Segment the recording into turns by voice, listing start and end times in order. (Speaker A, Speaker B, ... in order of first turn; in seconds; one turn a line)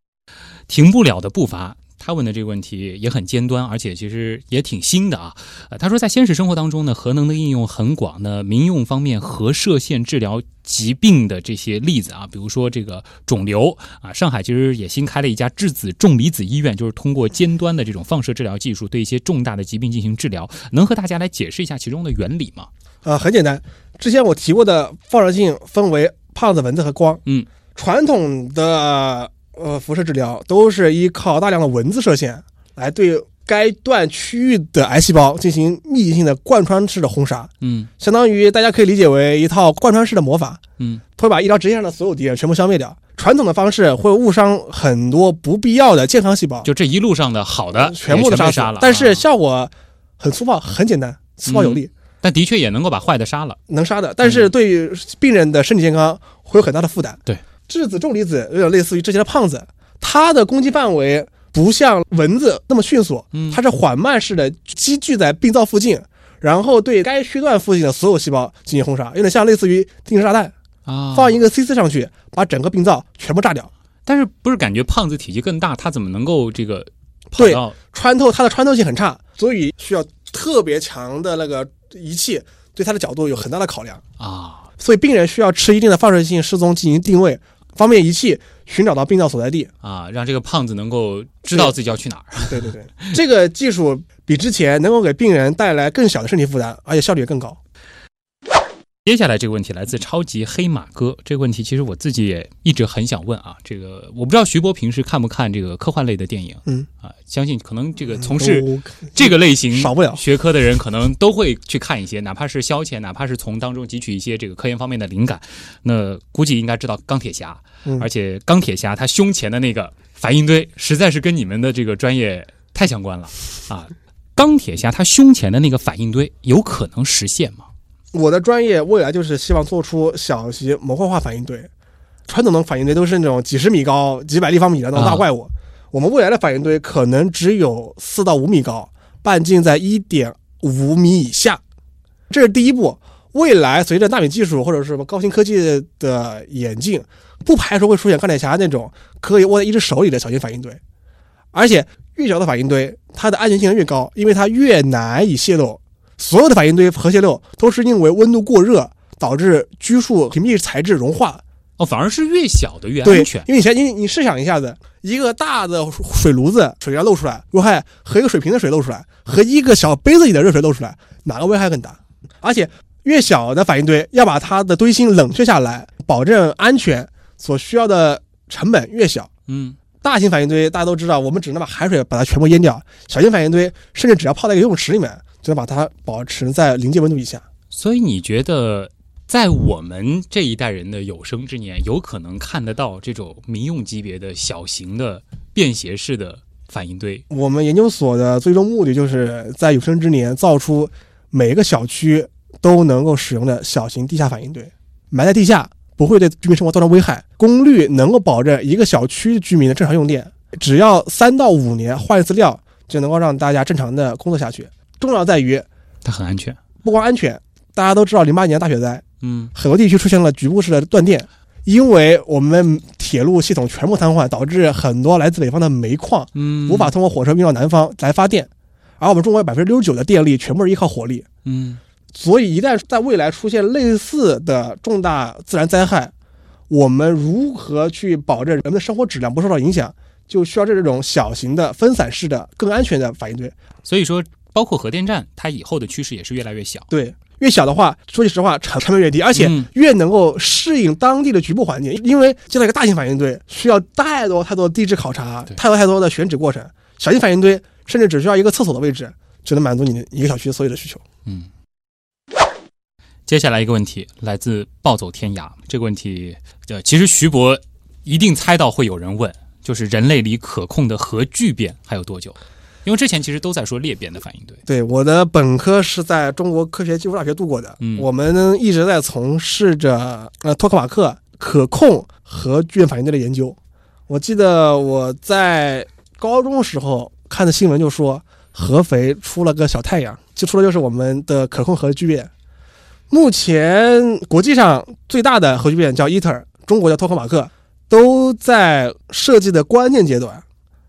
Speaker A: 0.7-22.7
Speaker B: 23.0-27.2
Speaker B: 27.8-40.6
Speaker A: 37.6-37.9
Speaker B: 41.2-46.7
Speaker A: 46.6-49.2
Speaker B: 47.8-51.9
Speaker A: 51.5-53.6
Speaker B: 53.7-70.5
Speaker A: 54.2-54.5
Speaker A: 63.3-63.6
Speaker A: 70.9-71.4
Speaker B: 71.1-73.7
Speaker A: 74.1-77.8
Speaker B: 77.3-84.0
Speaker A: 84.2-84.7
Speaker B: 84.8-89.7
Speaker A: 89.8-93.1
Speaker B: 92.5-97.6
Speaker A: 99.0-127.7
Speaker B: 108.2-110.2
Speaker B: 128.1-131.7
Speaker B: 132.3-141.6
Speaker A: 135.0-135.3
Speaker B: 142.3-150.8
Speaker B: 151.5-161.4
Speaker A: 161.8-163.5
Speaker B: 163.0-179.3
Speaker A: 179.5-179.8
Speaker B: 180.0-187.4
Speaker A: 187.7-197.2
Speaker B: 197.3-215.7
Speaker A: 216.0-216.6
Speaker B: 216.8-219.0
Speaker A: 219.2-219.5
Speaker B: 219.6-231.3
Speaker A: 226.3-226.9
Speaker A: 231.4-231.8
Speaker B: 232.1-236.1
Speaker B: 236.7-243.6
Speaker A: 243.8-246.9
Speaker B: 246.9-261.0
Speaker A: 249.4-249.7
Speaker A: 263.3-274.6
Speaker B: 274.7-283.6
Speaker A: 277.8-278.1
Speaker B: 284.1-292.3
Speaker B: 293.1-300.4